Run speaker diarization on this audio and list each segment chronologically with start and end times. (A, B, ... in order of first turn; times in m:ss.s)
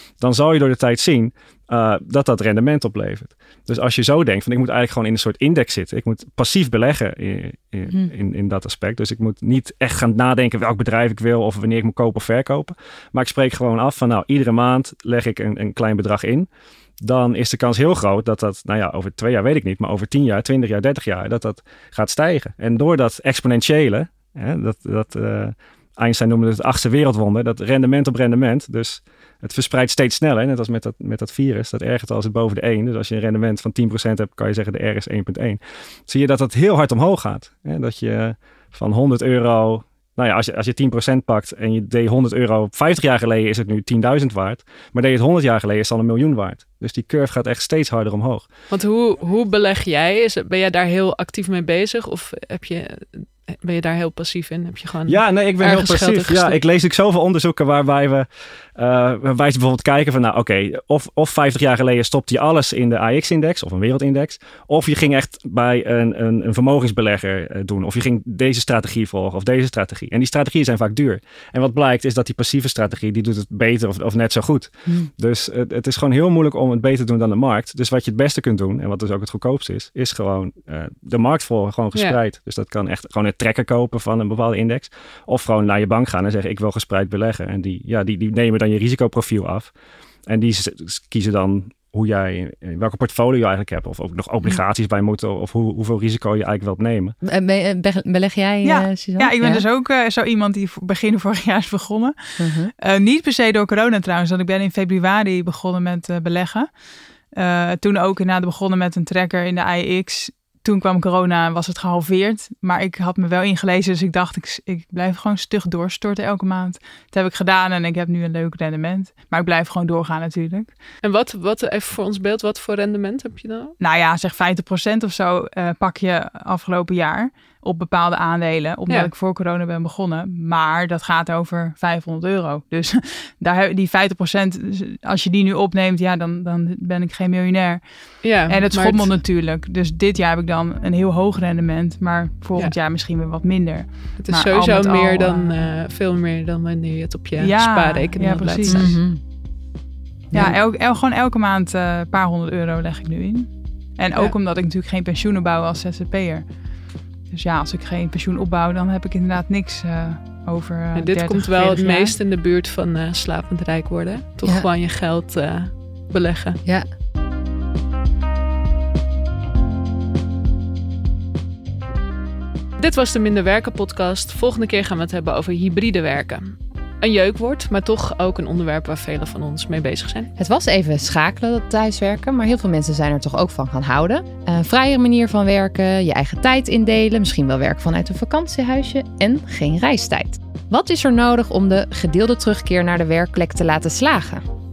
0:00.2-0:16.5 A
0:17.0-0:48.4 A
0:48.7-0:56.6 B
0:55.1-1:29.7 A
1:30.3-1:37.1 A
1:37.2-1:39.6 C
1:38.6-1:46.7 D
1:42.4-1:42.7 C
1:47.3-2:00.7 D
2:01.0-2:03.7 B
2:03.8-2:17.9 D
2:18.2-2:19.1 B
2:18.4-2:25.7 D
2:24.2-2:29.0 B
2:27.4-2:29.0 D
2:28.7-2:29.2 C
2:30.3-2:36.4 D
2:37.3-2:42.1 D
2:40.9-2:46.6 B
2:52.8-3:00.3 B
3:00.4-3:14.4 C